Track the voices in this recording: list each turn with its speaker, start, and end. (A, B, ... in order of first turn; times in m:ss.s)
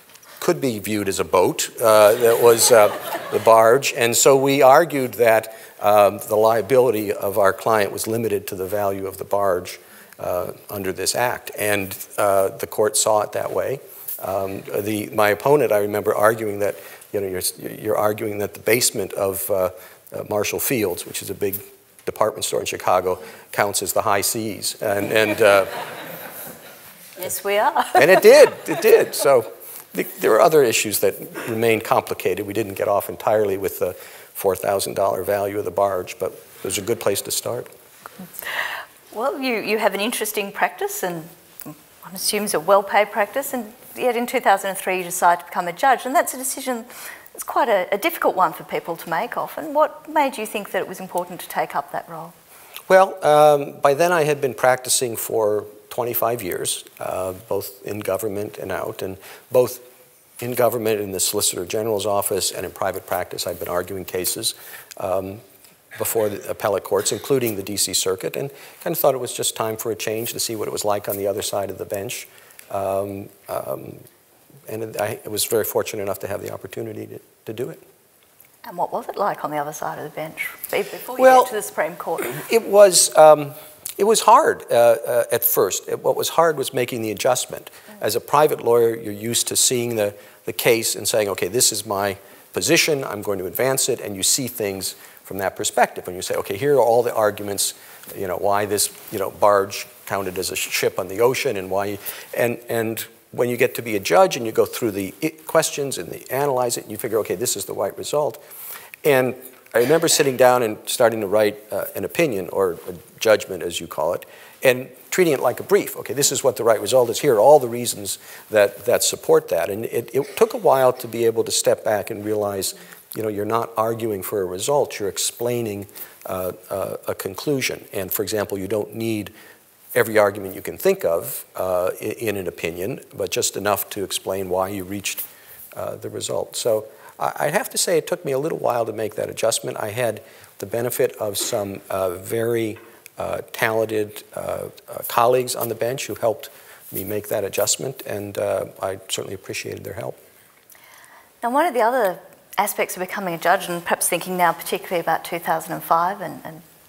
0:00.4-0:25.8 A
0:27.2-0:28.2 B
0:28.0-0:37.7 A
0:39.1-0:52.3 B
0:52.9-0:59.8 A
1:00.4-1:05.4 A
1:06.0-1:14.0 A
1:14.7-1:17.8 A
1:18.6-1:22.4 B
1:21.2-1:21.5 A
1:22.2-1:48.4 A
1:49.0-2:09.3 A
2:09.9-2:30.2 A
2:31.4-2:36.6 B